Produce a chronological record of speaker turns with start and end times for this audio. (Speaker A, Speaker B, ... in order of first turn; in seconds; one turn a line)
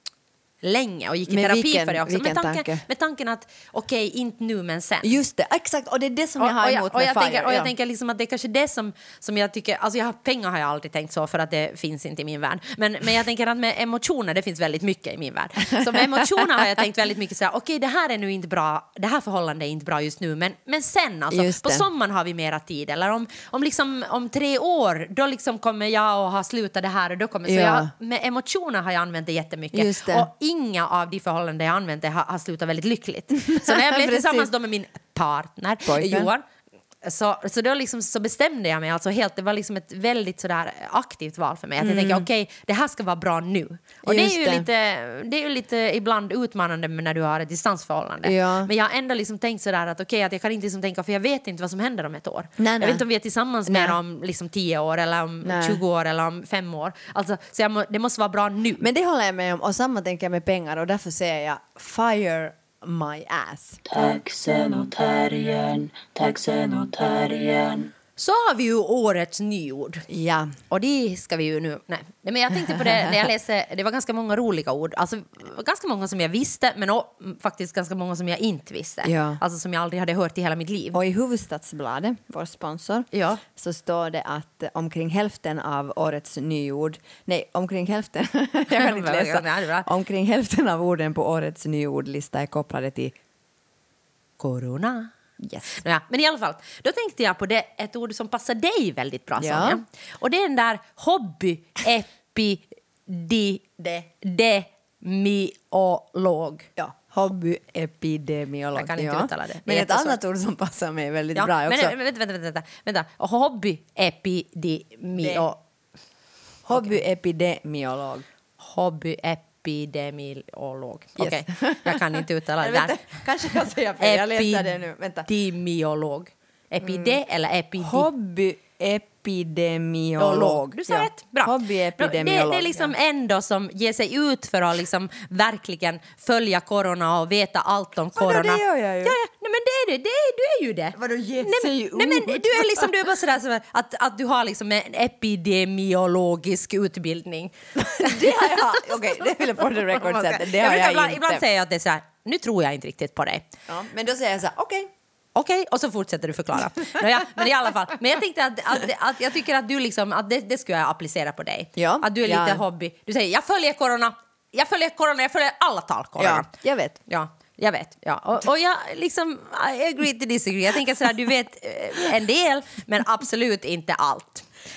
Speaker A: 0.6-5.1
Speaker B: 1.3-2.9
Speaker B: 5.0-7.7
Speaker A: 6.4-36.4
Speaker B: 15.9-16.4
Speaker B: 21.3-21.9
Speaker B: 27.5-27.9
Speaker B: 29.7-30.3
Speaker B: 33.5-34.5
Speaker B: 35.9-36.3
Speaker A: 37.0-58.9
Speaker B: 41.8-42.3
Speaker B: 44.0-44.7
Speaker B: 48.2-48.7
Speaker B: 52.6-53.0
Speaker B: 53.7-54.0
Speaker B: 55.4-55.8
Speaker B: 58.8-63.8
Speaker C: 63.9-67.9
Speaker A: 68.2-70.1
Speaker B: 70.1-70.6
Speaker A: 70.7-81.0
Speaker B: 72.7-73.1
Speaker B: 79.0-79.4
Speaker B: 80.9-93.2
Speaker A: 83.1-83.4
Speaker A: 88.7-89.9
Speaker A: 94.4-95.1
Speaker B: 95.4-95.8
Speaker A: 95.7-106.7
Speaker B: 99.4-99.8
Speaker B: 106.8-112.0
Speaker A: 108.8-110.2
Speaker A: 111.3-115.6
Speaker B: 115.2-115.5
Speaker B: 116.7-118.3
Speaker A: 118.6-123.2
Speaker B: 121.2-125.3
Speaker A: 124.0-128.1
Speaker B: 126.8-127.2
Speaker B: 127.8-132.9
Speaker A: 130.2-153.5
Speaker B: 138.2-139.2
Speaker B: 140.9-142.9
Speaker B: 147.8-151.4
Speaker B: 153.7-154.9
Speaker A: 155.3-166.5
Speaker B: 161.8-162.6
Speaker B: 166.2-167.0
Speaker A: 167.1-174.5